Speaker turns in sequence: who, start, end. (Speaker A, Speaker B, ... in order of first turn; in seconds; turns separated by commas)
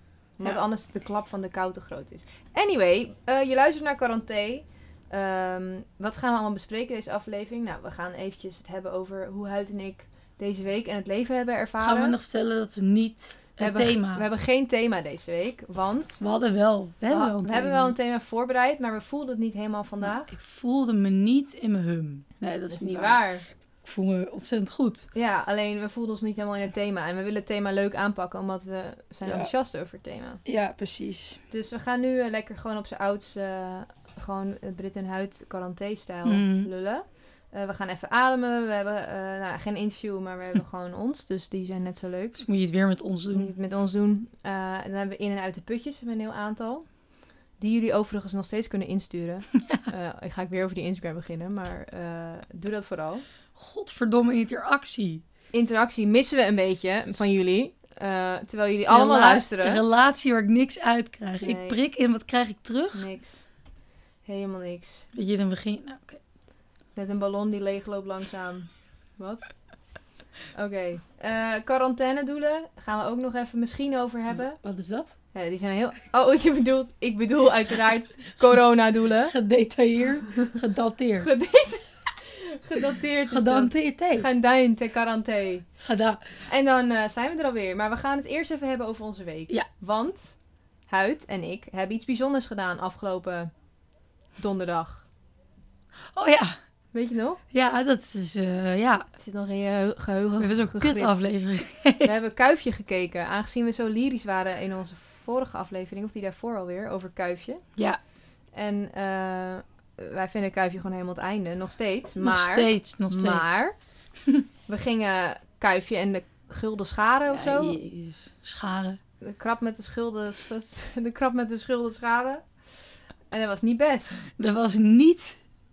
Speaker A: 0.4-12.2, Speaker B: 11.8-14.2, Speaker A: 13.6-16.2, Speaker B: 16.2-17.9, Speaker A: 17.1-20.3, Speaker B: 20.0-23.2, Speaker A: 22.7-23.4, Speaker B: 23.8-25.1, Speaker A: 25.1-30.4, Speaker B: 29.2-29.5, Speaker B: 30.4-31.4, Speaker A: 31.5-42.4, Speaker B: 36.2-36.7, Speaker B: 42.4-43.5, Speaker A: 43.3-46.9, Speaker A: 47.6-53.2, Speaker B: 53.5-55.2, Speaker A: 55.5-59.8, Speaker B: 58.9-63.0, Speaker A: 61.4-61.8, Speaker A: 62.9-63.5, Speaker A: 64.2-65.1, Speaker B: 65.1-66.2, Speaker A: 66.9-69.5, Speaker A: 70.5-74.6, Speaker B: 74.6-75.2, Speaker A: 75.3-79.3, Speaker B: 79.2-81.3, Speaker A: 81.2-85.7, Speaker B: 83.3-84.3, Speaker B: 85.8-86.3, Speaker A: 86.5-90.3, Speaker A: 90.9-93.5, Speaker A: 94.4-95.0, Speaker B: 96.1-96.5, Speaker A: 96.9-97.4, Speaker B: 97.5-99.1, Speaker A: 99.2-101.1, Speaker B: 100.4-102.1, Speaker A: 102.0-107.6, Speaker A: 108.5-113.7, Speaker B: 112.2-113.6, Speaker A: 114.7-117.8, Speaker B: 117.3-119.0, Speaker A: 119.2-122.5, Speaker A: 123.3-124.2, Speaker B: 124.3-125.4